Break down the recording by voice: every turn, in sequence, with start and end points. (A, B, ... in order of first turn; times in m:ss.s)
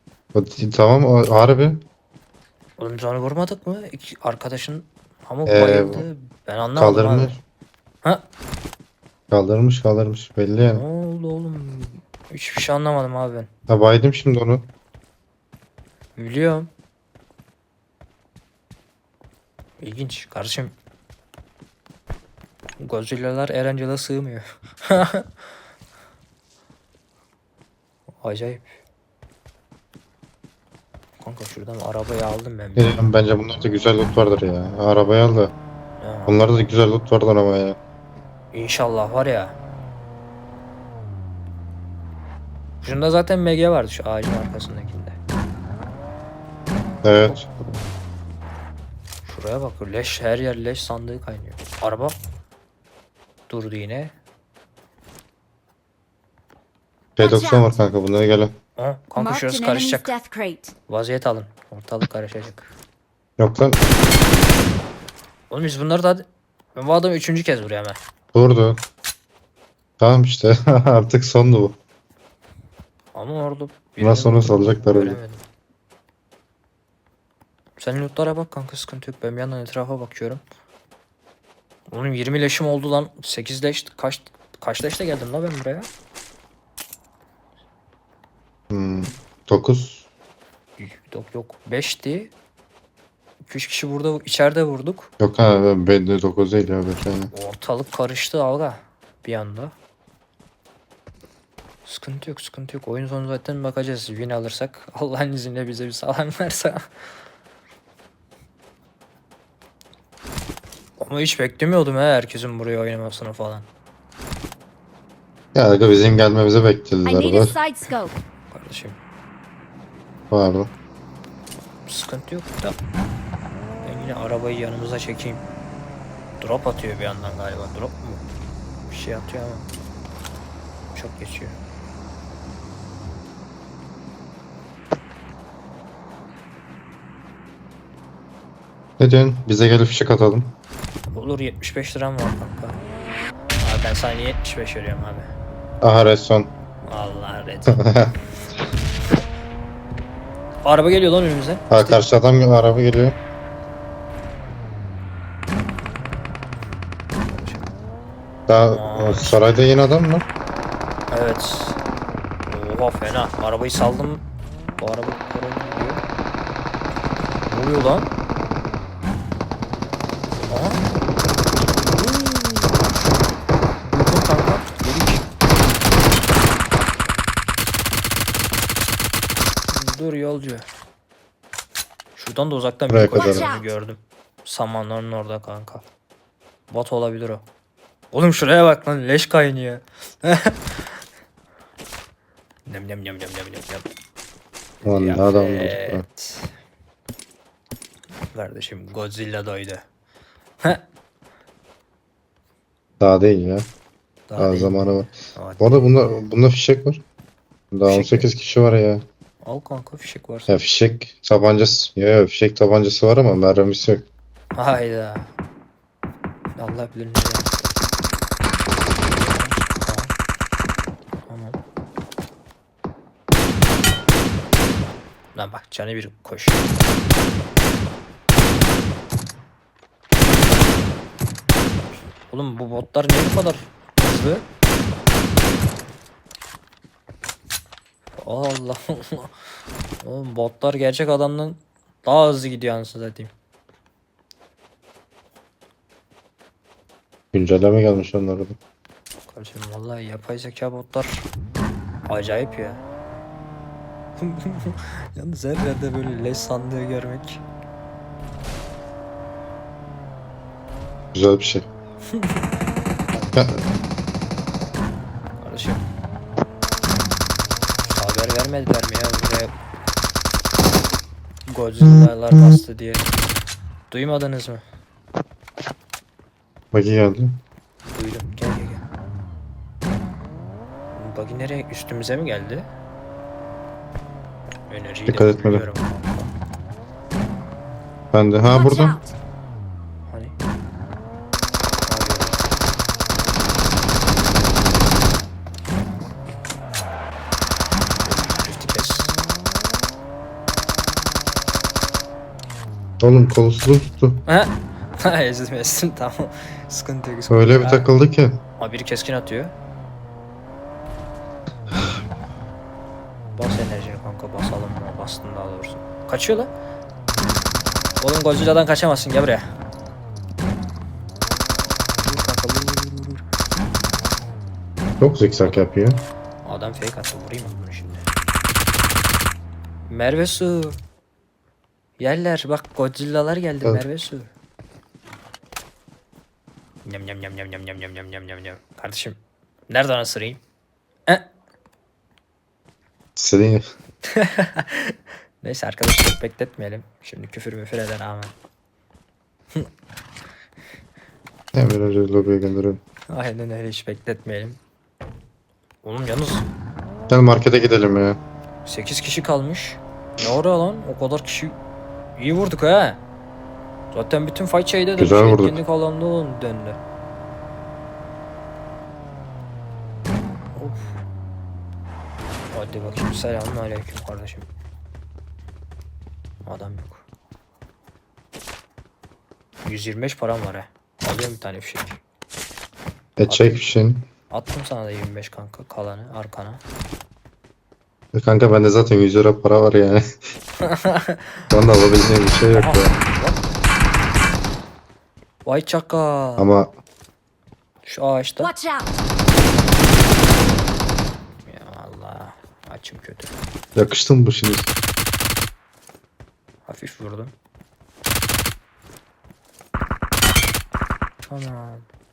0:00.3-0:01.8 A
0:02.8-0:07.4 B
0:05.5-0:06.1 A
0:06.8-0:07.4 A
0:09.3-0:10.8 A
0:10.7-0:13.5 B
0:13.7-0:14.7 A
0:16.2-0:16.7 B
0:19.8-0:20.7 B
0:22.8-0:25.3 B
0:28.2-0:28.7 B
0:31.2-0:33.1 B
0:32.8-0:35.5 A
0:36.0-0:36.4 B
0:36.3-0:37.8 A
0:38.5-0:39.6 B
0:42.8-0:45.2 B
0:47.0-0:47.5 A
0:49.2-0:52.2 B
0:53.5-0:54.1 B
0:57.2-0:58.6 A
0:57.2-0:57.8 C
0:58.8-1:00.1 B
0:59.2-1:00.7 C
1:00.9-1:02.7 B
1:03.4-1:03.8 A
1:05.5-1:08.0 B
1:08.3-1:08.8 A
1:10.0-1:11.8 A
1:13.1-1:15.4 B
1:14.0-1:15.2 A
1:17.8-1:20.4 B
1:21.9-1:25.9 B
1:28.7-1:30.0 A
1:30.8-1:32.3 B
1:33.4-1:35.1 B
1:35.2-1:37.3 A
1:37.3-1:39.7 B
1:41.9-1:46.9 B
1:51.0-1:53.7 B
1:55.6-1:57.5 A
1:57.1-1:58.1 C
1:58.5-1:59.0 B
2:00.3-2:00.7 A
2:01.9-2:02.8 B
2:03.8-2:05.4 B
2:06.4-2:08.2 B
2:08.9-2:09.6 B
2:10.9-2:11.6 B
2:19.0-2:20.6 A
2:21.1-2:22.8 B
2:23.6-2:25.3 B
2:25.8-2:26.5 A
2:26.8-2:27.8 B
2:27.7-2:28.1 A
2:30.6-2:32.0 B
2:31.7-2:33.2 A
2:37.2-2:37.7 B
2:38.5-2:40.3 A
2:38.7-2:39.6 B
2:41.1-2:41.8 B
2:42.4-2:44.2 B
2:44.8-2:46.0 B
2:47.5-2:48.1 B
2:50.5-2:50.8 B
2:52.0-2:52.7 B
2:53.8-2:55.2 B
2:59.7-3:00.6 B
3:02.2-3:05.8 B
3:02.9-3:03.5 A
3:03.2-3:03.7 C
3:06.7-3:07.4 B
3:08.1-3:11.0 B
3:12.7-3:13.9 B
3:14.8-3:16.5 B
3:14.8-3:16.0 A
3:18.3-3:19.8 B
3:23.0-3:23.7 A
3:24.3-3:25.8 B
3:24.4-3:27.0 A
3:27.7-3:29.0 A
3:27.9-3:28.3 B
3:29.4-3:30.6 B
3:30.5-3:34.1 A
3:34.6-3:35.3 B
3:36.6-3:37.6 B
3:39.1-3:40.1 B
3:41.3-3:41.6 B
3:45.4-3:46.8 B
3:52.3-3:54.4 B
3:58.2-3:59.3 B
4:00.0-4:03.3 B
4:07.3-4:08.6 A
4:09.3-4:11.3 B
4:12.1-4:12.8 B
4:14.2-4:17.4 B
4:21.1-4:21.7 A
4:22.1-4:22.4 B
4:23.1-4:23.4 B
4:23.3-4:23.6 A
4:25.4-4:25.8 B
4:27.9-4:29.5 B
4:31.5-4:33.1 B
4:33.9-4:34.6 B
4:36.7-4:37.4 A
4:37.8-4:38.8 B
4:40.9-4:42.7 B
4:44.7-4:46.3 B
4:45.1-4:45.6 A
4:48.1-4:49.0 A
4:48.5-4:49.2 C
4:50.1-4:50.3 B
4:51.9-4:52.4 B
4:58.0-4:59.1 B
5:03.0-5:04.2 A
5:04.3-5:07.9 B
5:07.3-5:08.4 A
5:08.6-5:09.5 B
5:13.4-5:16.5 B
5:18.0-5:19.4 B
5:22.0-5:23.2 B
5:25.0-5:26.0 A
5:26.4-5:28.0 B
5:29.9-5:30.8 B
5:32.0-5:34.3 B
5:36.8-5:39.2 B
5:39.7-5:40.4 B
5:43.2-5:43.6 A
5:44.1-5:48.3 B
5:51.5-5:52.8 A
5:53.1-5:54.6 B
5:55.8-5:56.5 B
5:57.1-5:58.2 A
5:58.6-6:01.6 B
6:02.2-6:03.0 B
6:03.9-6:06.8 B
6:05.0-6:05.6 A
6:10.6-6:10.9 B
6:12.5-6:14.5 B
6:16.5-6:17.0 B
6:19.6-6:22.0 B
6:23.2-6:24.1 A
6:23.3-6:23.6 B
6:24.3-6:26.6 B
6:28.1-6:30.0 A
6:30.6-6:31.3 B
6:31.5-6:33.0 A
6:32.5-6:33.4 B
6:35.4-6:36.5 B
6:36.4-6:36.7 A
6:37.8-6:38.5 B
6:38.4-6:39.0 C
6:41.5-6:43.3 B
6:43.8-6:44.7 A
6:46.7-6:47.3 B
6:51.3-6:51.9 B